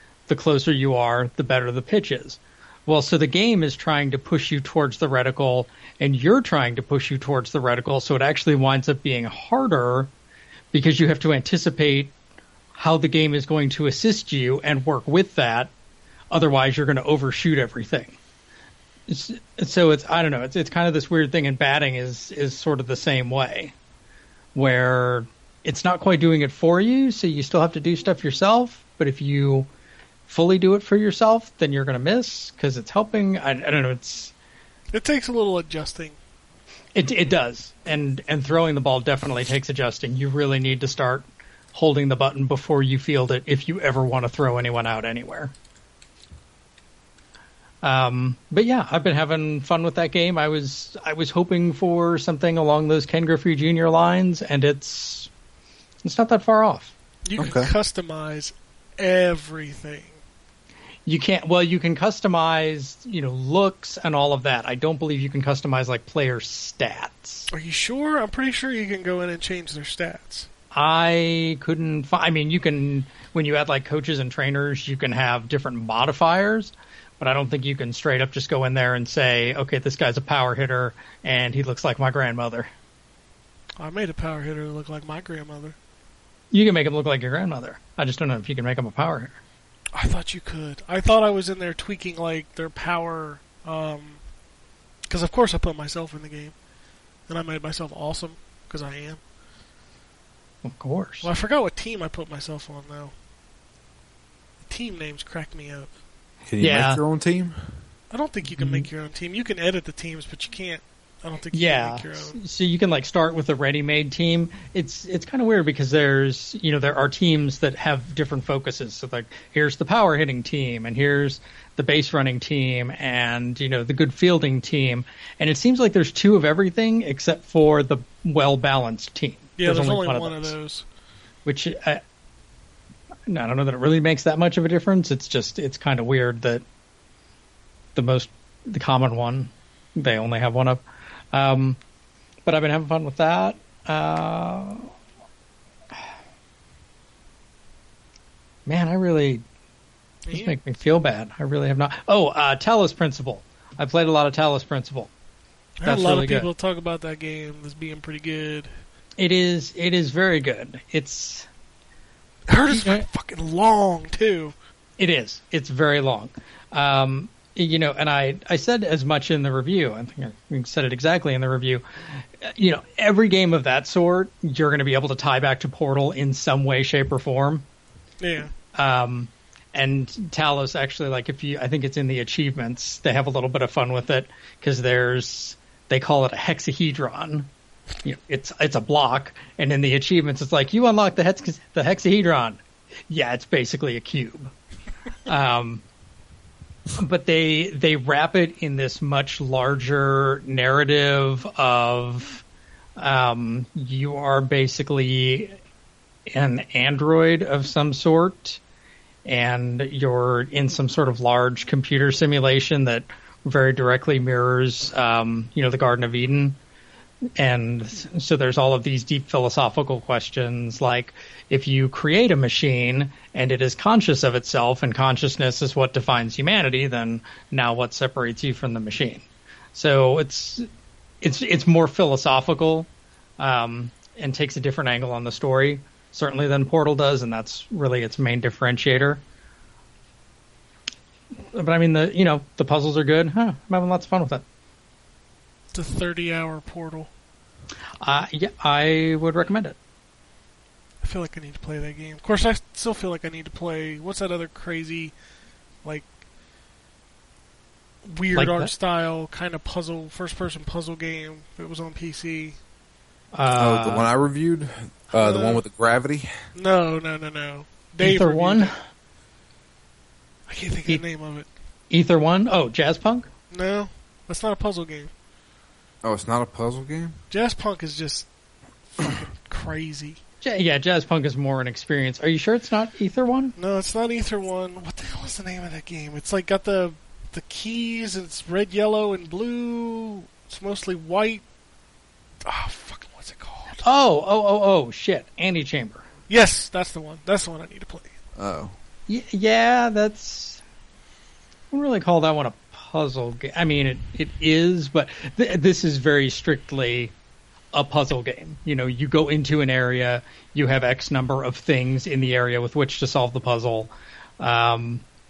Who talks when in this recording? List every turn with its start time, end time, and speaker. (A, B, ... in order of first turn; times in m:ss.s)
0:00.3-0:10.1 A
0:10.7-0:12.1 A
0:12.7-0:15.7 A
0:16.3-0:18.2 A
0:19.1-0:23.7 A
0:24.5-0:29.7 A
0:30.3-0:34.3 A
0:34.9-0:36.2 B
0:36.9-0:45.5 A
0:47.8-0:55.3 A
0:56.0-0:56.9 A
0:57.2-1:00.2 B
0:57.4-0:57.7 C
1:01.0-1:07.5 A
1:07.5-1:10.5 B
1:10.7-1:22.7 A
1:23.8-1:25.8 B
1:26.5-1:29.4 A
1:29.9-1:34.2 B
1:35.1-1:36.5 B
1:37.3-1:39.2 B
1:40.6-1:41.3 A
1:41.2-1:43.1 B
1:44.6-1:45.9 B
1:46.5-1:47.6 C
1:46.6-1:47.0 A
1:48.1-1:52.4 B
1:48.5-1:48.9 A
1:51.5-2:10.5 A
2:09.6-2:10.8 B
2:11.4-2:12.0 A
2:13.3-2:16.6 A
2:17.9-2:21.8 A
2:22.4-2:24.9 A
2:28.6-2:29.4 A
2:30.2-2:30.5 B
2:30.3-2:35.1 A
2:35.8-2:38.7 B
2:35.8-2:36.5 A
2:39.2-2:41.5 A
2:42.5-2:44.5 B
2:42.7-2:43.0 A
2:45.0-2:57.6 A
2:58.2-2:58.5 B
2:58.7-3:07.5 A
3:08.0-3:14.5 A
3:15.2-3:15.8 A
3:17.0-3:22.4 A
3:23.0-3:25.6 A
3:26.3-3:28.6 A
3:29.2-3:36.6 A
3:37.4-3:50.7 A
3:51.2-3:59.2 A
4:01.5-4:04.4 A
4:05.7-4:07.1 B
4:08.0-4:09.8 A
4:11.0-4:15.1 B
4:18.0-4:22.6 B
4:18.3-4:18.7 A
4:23.3-4:24.1 A
4:23.5-4:26.3 C
4:25.1-4:25.6 B
4:26.5-4:28.7 B
4:28.0-4:28.7 A
4:30.5-4:31.5 B
4:31.9-4:33.3 A
4:33.5-4:35.1 B
4:36.0-4:37.1 C
4:37.3-4:38.3 B
4:39.0-4:40.2 B
4:40.4-4:43.5 A
4:43.6-4:51.4 B
4:52.4-4:53.8 B
4:53.8-4:56.0 A
4:56.3-4:58.1 B
4:58.4-4:58.7 C
4:59.1-5:00.6 A
5:01.7-5:07.1 A
5:07.7-5:15.0 A